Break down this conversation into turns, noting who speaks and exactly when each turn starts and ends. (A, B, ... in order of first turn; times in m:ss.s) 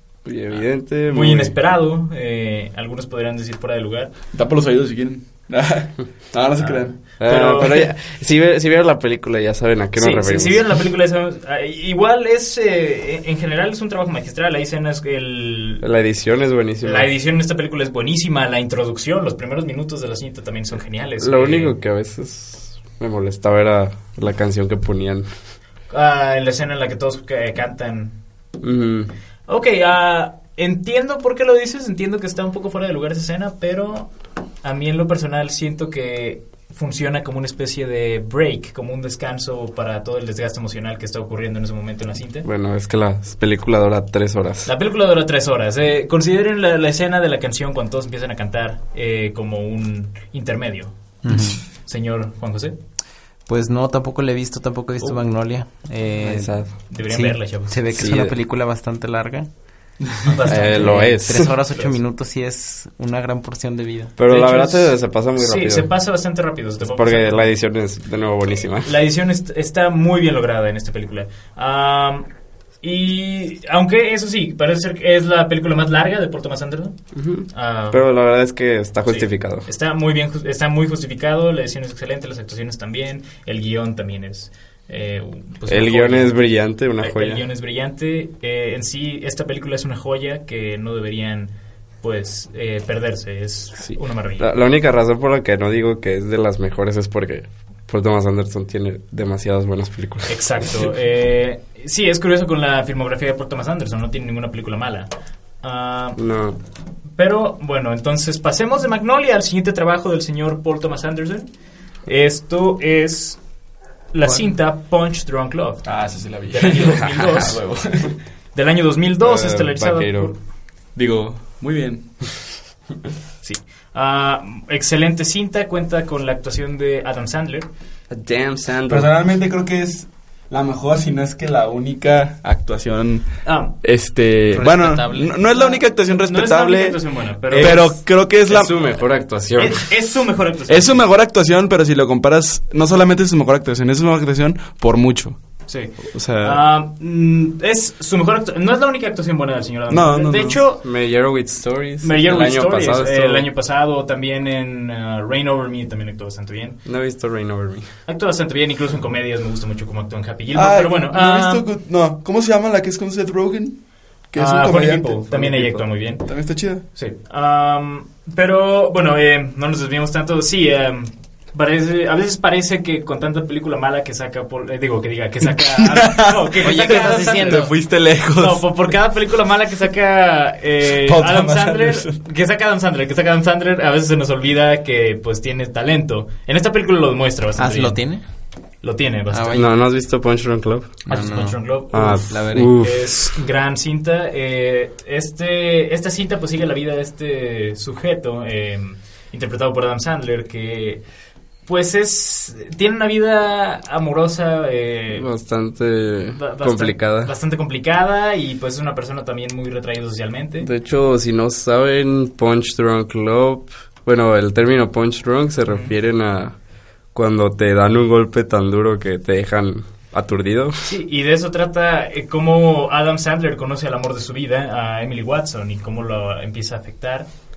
0:00.2-0:01.6 A
0:01.1-0:04.1 B
0:04.3-0:07.0 C
0:06.6-0:07.9 B
0:07.2-0:10.7 A
0:10.0-0:15.8 B
0:15.8-0:17.1 A
0:16.8-0:21.8 B
0:21.2-0:25.3 A
0:25.9-0:28.2 B
0:28.6-0:29.1 A
0:29.5-0:34.1 B
0:34.6-0:42.5 B
0:42.4-0:44.7 A
0:44.6-0:50.9 B
0:51.2-0:51.6 D
0:51.8-0:52.8 B
0:53.5-0:56.5 D
0:56.2-0:56.7 A
0:56.9-0:57.8 B
0:57.1-0:59.5 D
0:57.9-0:58.3 A
1:00.3-1:01.9 B
1:00.5-1:01.5 A
1:00.6-1:04.1 D
1:04.2-1:05.9 A
1:04.3-1:07.5 B
1:06.8-1:08.9 A
1:08.8-1:12.3 B
1:12.8-1:17.0 B
1:17.1-1:19.7 A
1:17.5-1:18.0 B
1:19.1-1:26.4 B
1:25.7-1:27.4 A
1:27.0-1:34.5 B
1:33.8-1:40.3 A
1:40.3-1:45.1 B
1:45.6-1:46.2 B
1:46.2-1:46.6 A
1:47.2-1:51.5 B
1:52.1-1:53.4 B
1:54.1-1:55.9 B
1:55.8-1:58.2 C
1:56.5-1:57.6 B
1:58.6-2:00.4 B
1:59.2-2:00.3 A
2:01.0-2:02.1 C
2:03.4-2:07.7 B
2:08.1-2:09.1 A
2:08.9-2:13.3 C
2:13.4-2:13.8 B
2:13.8-2:18.7 C
2:14.5-2:15.4 D
2:15.5-2:18.0 B
2:17.5-2:17.9 A
2:18.5-2:19.8 A
2:19.6-2:21.0 B
2:20.7-2:25.4 C
2:25.7-2:30.8 B
2:26.1-2:26.6 C
2:29.9-2:30.6 C
2:30.8-2:33.5 A
2:32.0-2:36.8 B
2:36.8-2:37.9 A
2:38.1-2:41.6 B
2:40.5-2:43.8 C
2:44.3-2:45.7 C
2:44.4-2:46.3 B
2:45.4-2:45.8 A
2:46.3-2:46.8 C
2:46.9-2:57.7 B
2:55.8-2:58.7 C
2:56.6-2:57.7 D
2:58.4-3:08.0 B
3:00.9-3:02.2 C
3:07.6-3:08.2 D
3:08.8-3:09.7 B
3:09.3-3:09.7 D
3:09.5-3:11.0 A
3:11.1-3:21.0 B
3:11.1-3:12.8 D
3:11.9-3:13.3 A
3:21.7-3:25.3 B
3:25.1-3:27.3 A
3:26.4-3:30.7 B
3:30.6-3:36.6 A
3:35.7-3:35.9 B
3:37.1-3:40.8 A
3:40.8-3:47.3 B